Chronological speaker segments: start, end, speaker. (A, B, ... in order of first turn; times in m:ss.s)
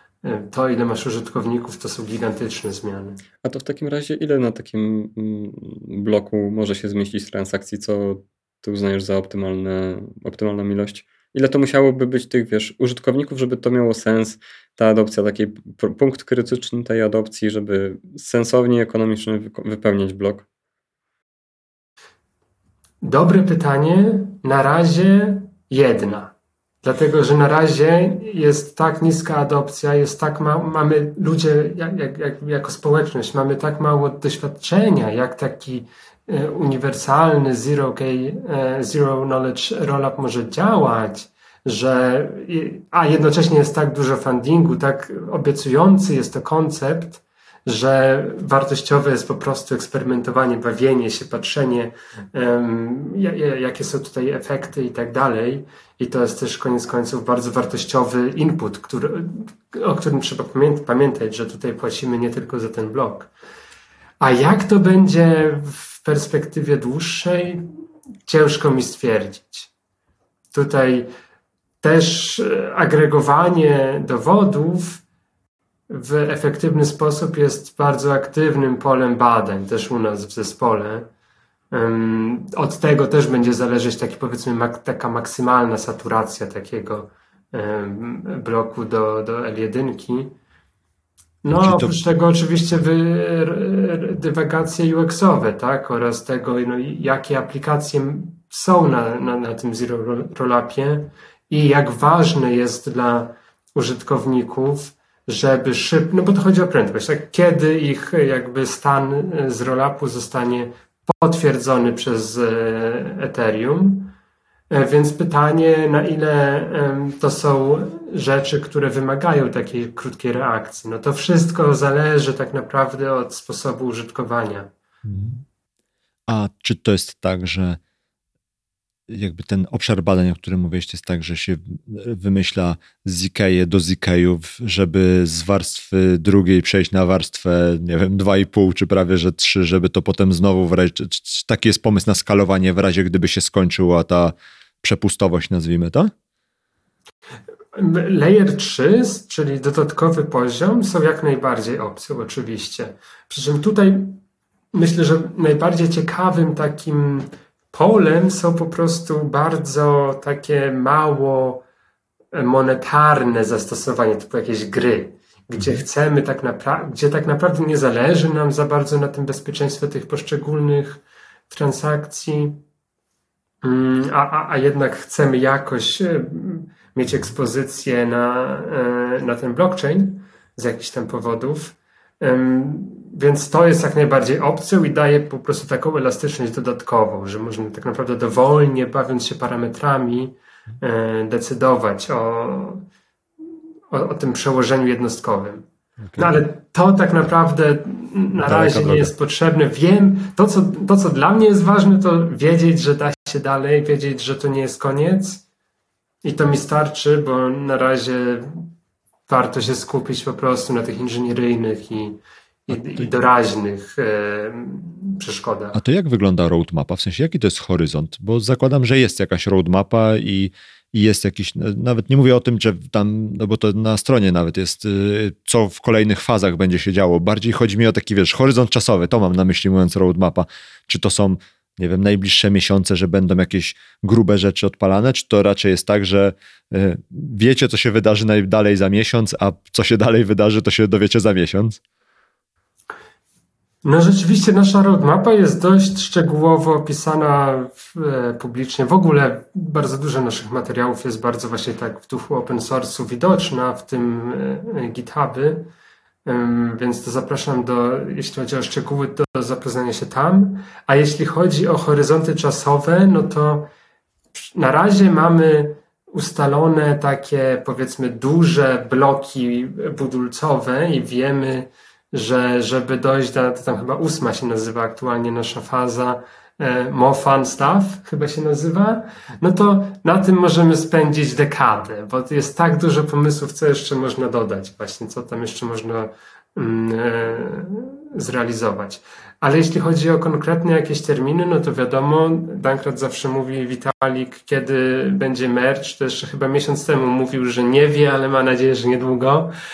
0:00.2-0:03.2 A
0:03.4-0:20.4 B
0:23.0-1:03.3 A
1:04.2-1:07.6 A
1:08.3-1:09.7 A
1:10.5-1:11.1 A
1:11.8-1:15.0 A
1:15.9-1:21.1 A
1:21.7-1:30.4 A
1:31.4-1:54.1 A
1:31.5-1:31.9 C
1:54.7-2:04.7 A
2:05.0-2:05.4 C
2:06.3-2:07.8 C
2:09.1-2:26.1 C
2:27.7-2:34.2 A
2:34.7-2:41.6 A
2:42.3-2:52.6 A
2:53.6-3:12.8 A
3:13.9-3:25.4 A
3:18.4-3:19.1 C
3:26.2-3:28.7 A
3:29.3-3:35.8 A
3:35.7-4:01.8 C
4:03.8-4:15.7 A
4:16.2-4:23.7 A
4:24.5-4:59.5 A